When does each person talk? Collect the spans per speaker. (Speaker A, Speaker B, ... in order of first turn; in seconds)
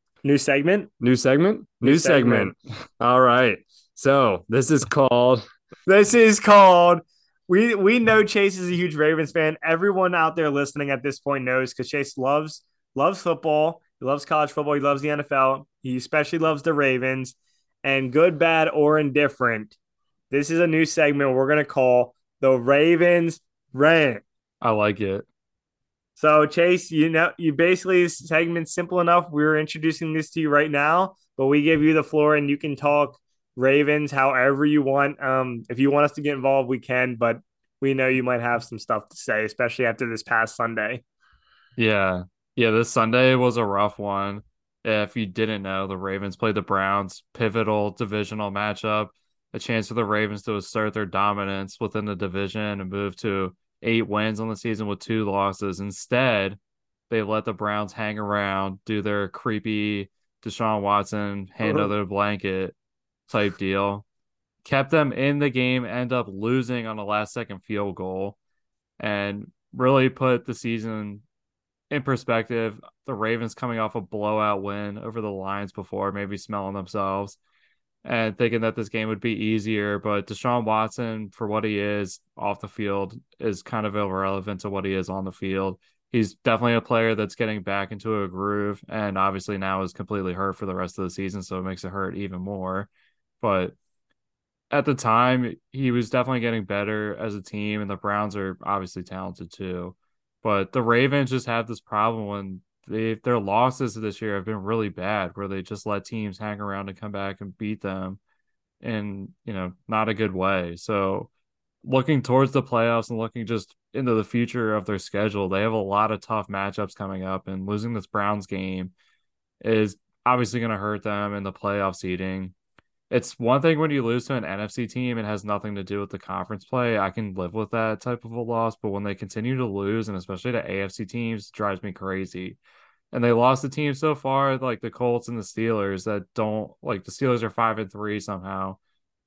Speaker A: 0.2-0.9, 1.8-2.5, 5.8-19.7, 20.3-24.2, 26.2-41.0
Speaker B: 1.0-5.4
Speaker C: 24.6-25.2, 41.8-56.6, 57.1-62.7, 63.3-64.0, 64.6-68.4, 69.0-71.2, 71.9-77.4, 78.0-92.9, 93.4-93.7, 94.7-108.2, 108.8-111.3, 111.8-118.9, 119.6-122.5, 123.1-132.6, 133.1-138.8